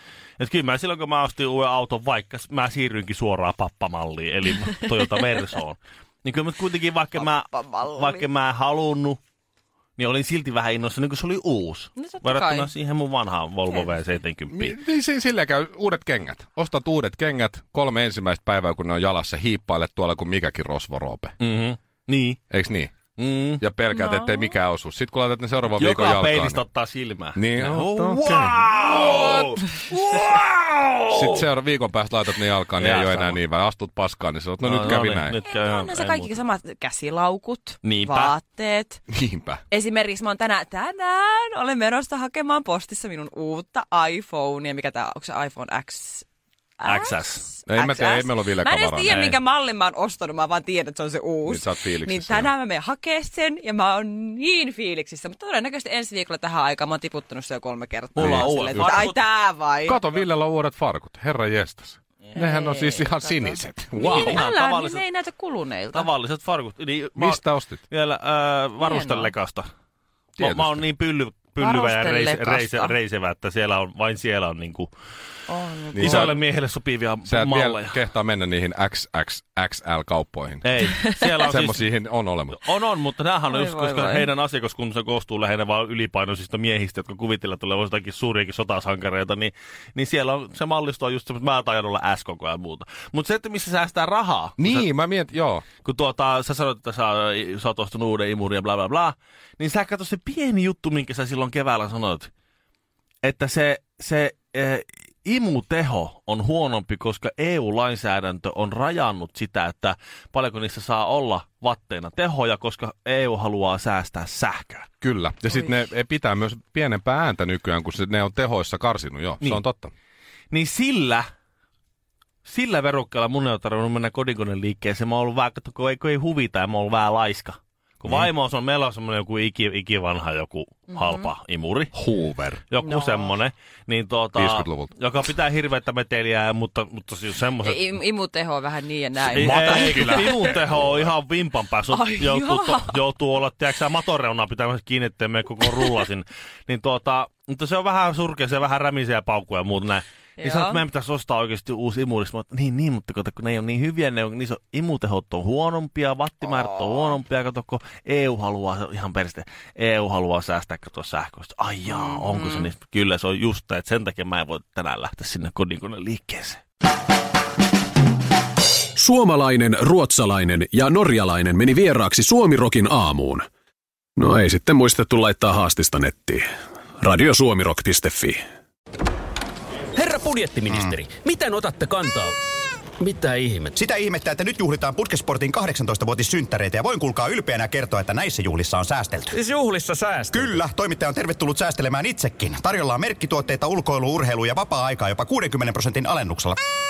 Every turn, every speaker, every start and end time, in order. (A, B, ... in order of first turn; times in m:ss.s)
0:00.4-0:09.2 A
0:07.2-0:08.2 B
0:10.0-0:14.8 A
0:12.0-0:12.7 B
0:13.7-0:14.0 B
0:14.5-0:21.4 C
0:21.4-0:22.4 A
0:22.5-0:22.9 C
0:23.2-0:23.6 A
0:23.6-0:26.6 C
0:23.9-0:24.6 B
0:25.8-0:31.5 A
0:27.4-0:28.6 C
0:31.1-0:35.4 C
0:32.8-0:33.4 A
0:34.6-0:36.4 A
0:35.4-0:39.0 B
0:37.8-0:38.3 A
0:39.1-0:39.6 C
0:39.7-0:46.3 B
0:46.8-1:00.0 B
0:46.8-0:47.5 A
0:47.7-0:49.3 C
0:49.1-0:49.4 A
0:51.4-0:52.5 C
0:58.2-0:59.2 A
0:58.2-0:59.0 C
0:59.8-1:04.5 C
1:02.3-1:06.1 B
1:04.0-1:05.0 A
1:05.9-1:09.7 A
1:07.2-1:07.8 C
1:08.8-1:09.3 B
1:10.4-1:10.8 C
1:10.4-1:14.9 A
1:11.6-1:12.9 B
1:15.5-1:16.3 B
1:15.9-1:16.4 C
1:16.0-1:18.0 A
1:17.3-1:20.7 C
1:20.6-1:21.9 A
1:21.1-1:21.4 B
1:21.4-1:22.6 C
1:22.6-1:34.9 A
1:23.5-1:24.3 B
1:34.6-1:35.6 C
1:35.8-1:42.3 A
1:43.2-1:54.9 A
1:55.0-1:59.9 C
2:00.5-2:01.3 A
2:02.4-2:12.0 A
2:10.9-2:11.3 B
2:11.9-2:12.6 C
2:12.7-2:17.8 A
2:12.8-2:13.4 B
2:14.4-2:15.0 C
2:17.6-2:20.6 B
2:19.3-2:21.1 C
2:19.3-2:46.6 A
2:21.9-2:23.0 B
2:30.4-2:30.8 B
2:36.7-2:37.0 B
2:41.9-2:42.7 B
2:49.0-2:53.5 D
2:54.2-2:56.5 D
2:57.0-2:58.4 D
3:00.0-3:02.4 E
3:00.7-3:01.1 F
3:03.0-3:03.7 E
3:03.7-3:09.4 F
3:09.3-3:10.5 E
3:10.2-3:16.6 F